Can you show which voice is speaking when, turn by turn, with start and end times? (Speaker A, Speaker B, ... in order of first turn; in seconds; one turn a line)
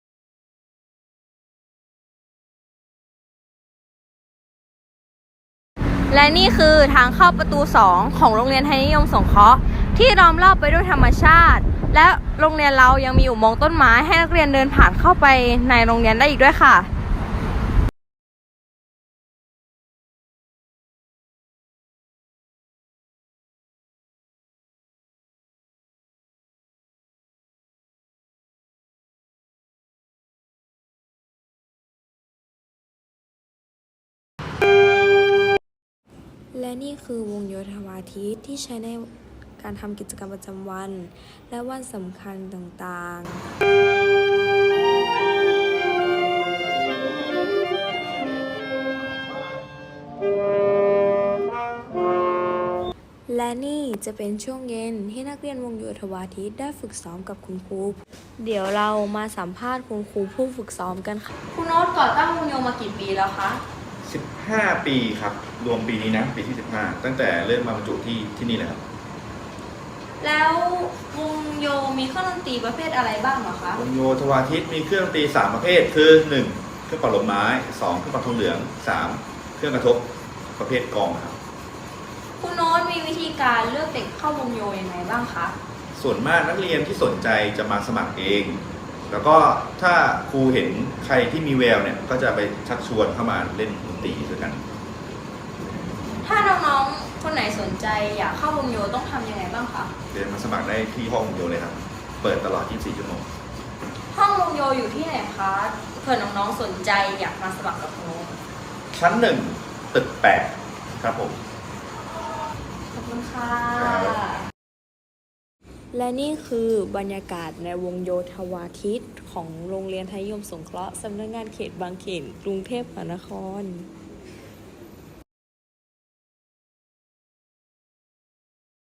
Speaker A: 6.1-16.9
Speaker B: 36.5-43.5
Speaker B: 53.3-61.3
Speaker A: 61.5-63.6
Speaker C: 64.0-68.8
Speaker A: 70.2-73.8
Speaker C: 73.7-81.4
Speaker A: 82.4-85.5
Speaker C: 85.9-94.6
Speaker A: 96.2-99.9
Speaker C: 100.1-103.3
Speaker A: 104.1-108.3
Speaker C: 108.9-111.4
Speaker A: 112.9-114.4
Speaker C: 113.7-114.2
Speaker B: 115.9-123.9